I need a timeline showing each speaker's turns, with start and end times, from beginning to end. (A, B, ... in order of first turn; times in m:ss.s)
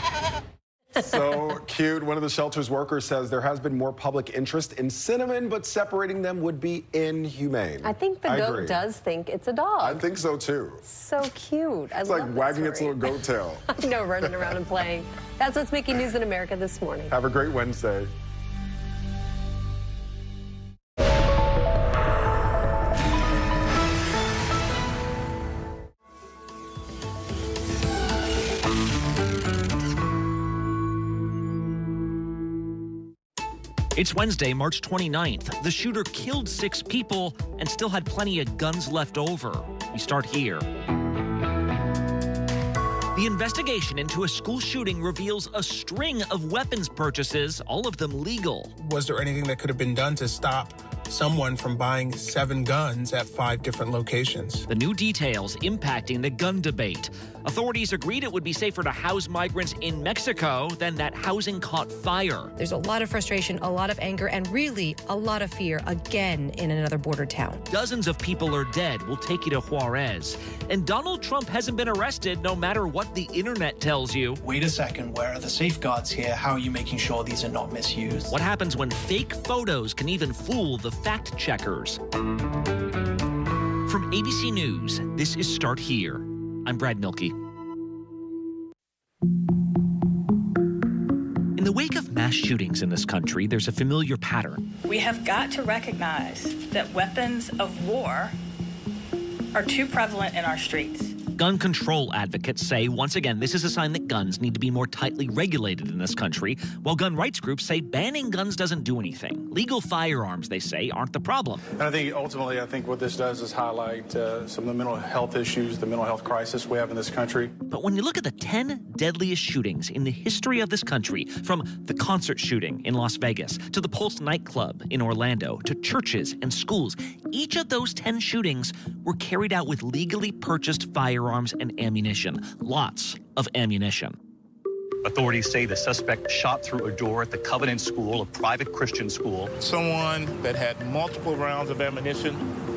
0:01.0-0:08.8 A
0:07.8-0:10.1 B
0:09.8-0:10.8 A
0:10.8-0:17.2 B
0:12.0-0:14.6 A
0:17.1-0:18.1 A
0:34.0-0:40.7 C
0:43.2-0:48.7 C
0:48.8-0:54.7 D
0:54.7-1:02.5 C
1:02.6-1:07.6 E
1:07.7-1:14.4 C
1:14.4-1:18.4 F
1:18.3-1:22.0 C
1:23.9-1:27.4 C
1:31.6-1:34.6 C
1:34.9-1:37.2 G
1:39.6-1:41.1 G
1:41.4-1:51.6 C
1:51.8-1:57.5 H
1:57.7-2:14.2 C
2:15.1-2:19.5 I
2:19.6-2:22.4 J